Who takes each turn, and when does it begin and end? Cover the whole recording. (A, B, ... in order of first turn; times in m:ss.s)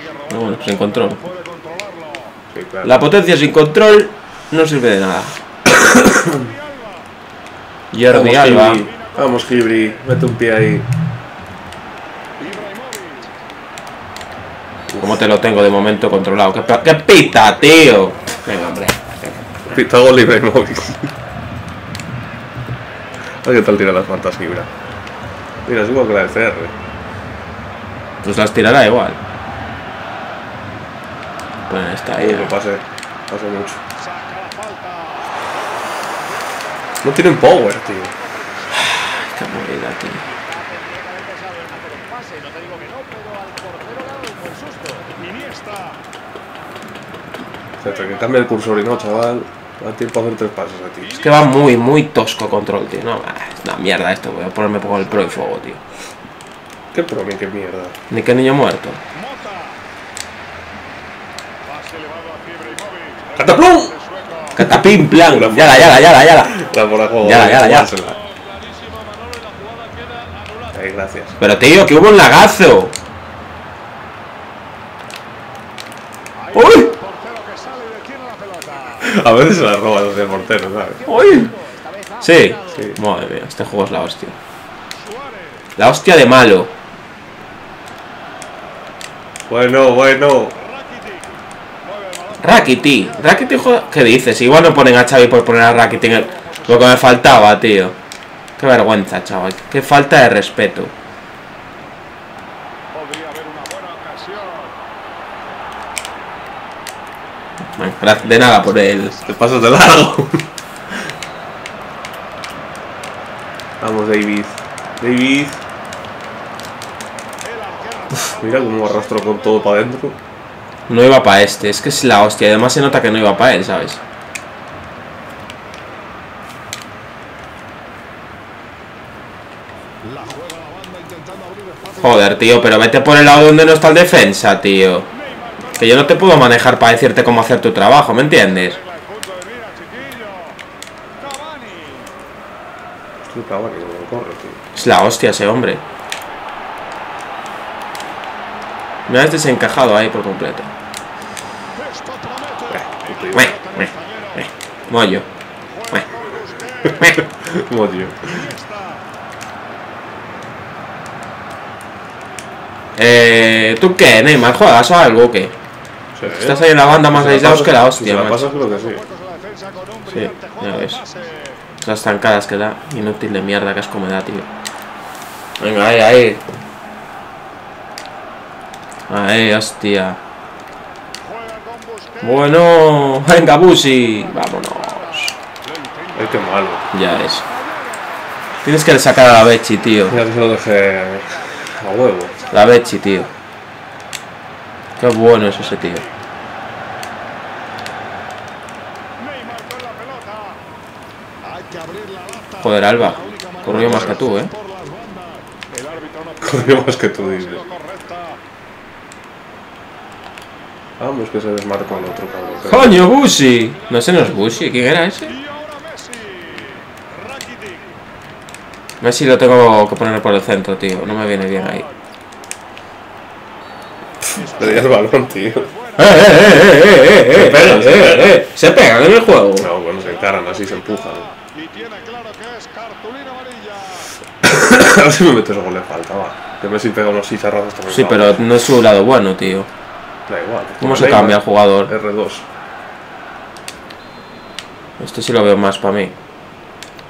0:00.3-0:01.3 A
0:02.5-0:03.0 B
0:02.8-0:05.4 A
0:05.8-0:06.5 B
0:07.9-0:08.9 A
0:08.0-0:10.9 B
0:12.6-0:13.0 C
0:15.0-0:19.4 A
0:19.6-0:21.1 B
0:23.4-0:24.7 B
0:25.7-0:26.7 B
0:28.2-0:29.2 A
0:31.7-0:32.5 A
0:32.2-0:33.8 B
0:37.0-0:38.1 B
0:38.7-0:40.3 A
0:41.4-0:45.9 C
0:47.8-0:51.2 B
0:51.1-0:55.8 A
0:56.9-0:58.0 B
0:58.1-0:59.0 A
1:02.1-1:03.3 C
1:03.4-1:04.0 B
1:04.6-1:06.6 A
1:05.2-1:08.2 B
1:07.2-1:07.9 A
1:10.7-1:11.4 B
1:11.4-1:12.9 A
1:16.5-1:17.0 A
1:17.2-1:18.8 C
1:19.0-1:21.1 B
1:21.1-1:21.5 A
1:22.2-1:24.4 A
1:25.8-1:26.7 A
1:29.5-1:30.6 B
1:32.4-1:38.0 A
1:38.6-1:40.9 A
1:43.2-1:44.6 C
1:47.8-1:49.2 A
1:49.2-1:50.5 B
1:53.8-1:55.6 B
1:58.2-2:00.2 B
2:00.9-2:04.0 A
2:12.0-2:15.1 A
2:15.8-2:18.8 A
2:23.2-2:24.6 B
2:24.8-2:25.8 A
2:29.1-2:30.7 A
2:32.7-2:33.6 B
2:33.4-2:35.2 A
2:37.0-2:38.6 B
2:43.0-2:45.5 A
2:46.2-2:46.6 B
2:46.3-2:48.4 A
2:47.1-2:49.1 B
2:50.1-2:51.0 A
2:51.8-2:54.5 A
2:55.6-2:56.4 A
2:59.1-3:00.2 A
3:02.2-3:05.4 A
3:06.2-3:06.9 B
3:06.9-3:07.5 A
3:08.6-3:10.2 A
3:10.1-3:12.4 B
3:12.5-3:13.3 A
3:15.0-3:16.0 A
3:22.6-3:24.5 A
3:23.7-3:24.2 B
3:26.4-3:27.6 B
3:31.0-3:33.0 B
3:32.7-3:35.4 A
3:39.0-3:41.9 A
3:44.4-3:45.7 B
3:46.0-3:49.7 A
3:47.3-3:48.4 B
3:49.6-3:51.3 B
3:51.9-3:53.7 C
3:54.4-3:58.5 B
3:57.9-3:59.7 A
4:00.3-4:02.5 B
4:00.8-4:01.9 A
4:05.0-4:06.2 A